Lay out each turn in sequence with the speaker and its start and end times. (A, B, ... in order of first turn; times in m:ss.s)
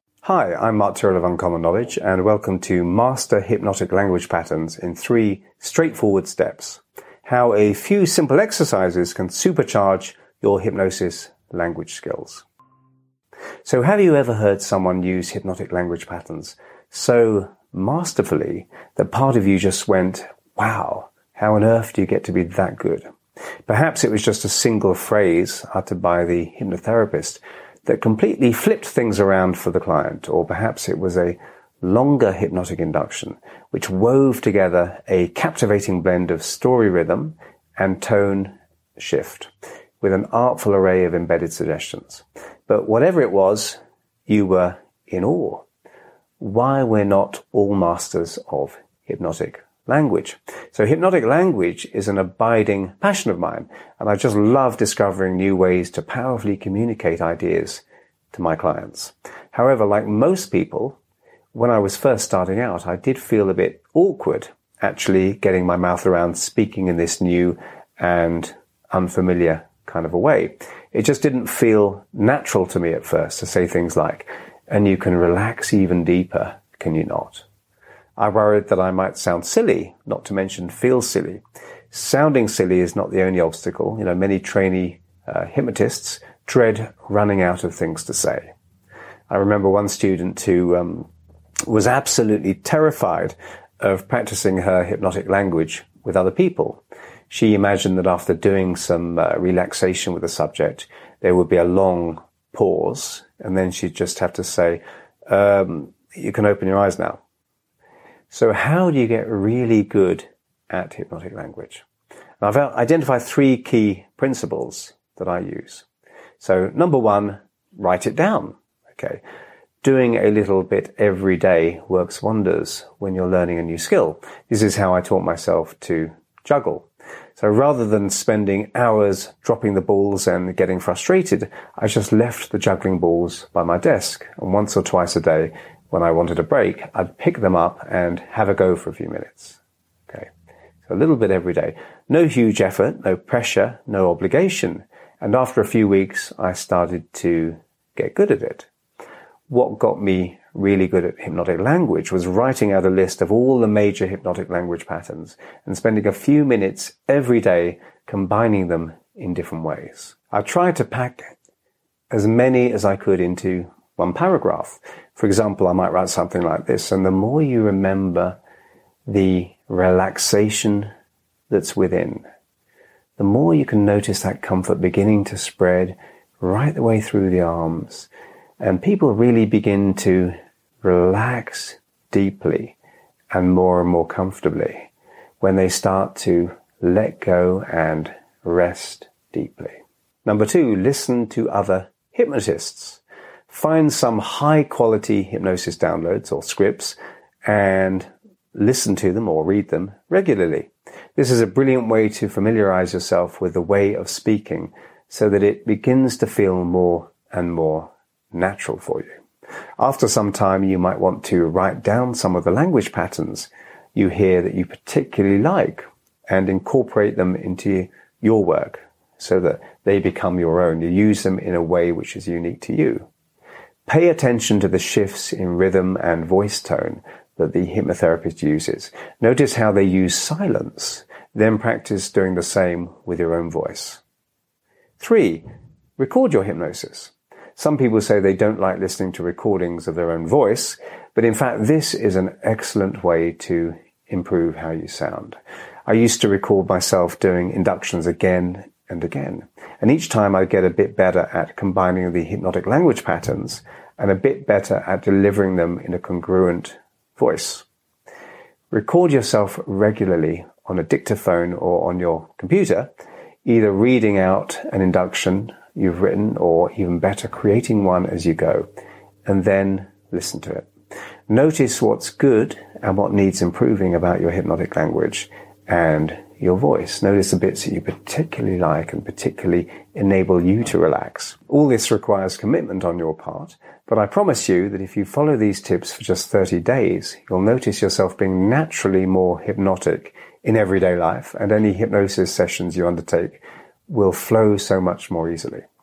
0:00.2-0:12.4 A
0:13.6-0:23.0 A
0:23.7-0:45.6 A
0:46.4-1:01.0 A
1:01.5-1:17.4 A
1:18.2-1:28.5 A
1:29.3-1:31.1 A
1:31.7-1:47.2 A
1:48.3-1:51.8 A
1:52.4-1:55.9 A
1:56.4-1:59.2 A
1:59.8-2:20.3 A
2:20.8-2:28.7 A
2:29.5-2:41.3 A
2:42.1-2:48.4 A
2:49.0-2:50.9 A
2:51.5-2:52.2 A
2:53.2-2:58.1 A
2:58.6-3:02.7 A
3:03.3-3:04.9 A
3:05.4-3:29.2 A
3:29.8-3:43.1 A
3:43.8-3:54.0 A
3:55.0-3:55.4 A
3:56.0-4:17.6 A
4:18.7-4:22.9 A
4:23.4-4:28.7 A
4:29.2-4:30.7 A
4:31.3-4:55.7 A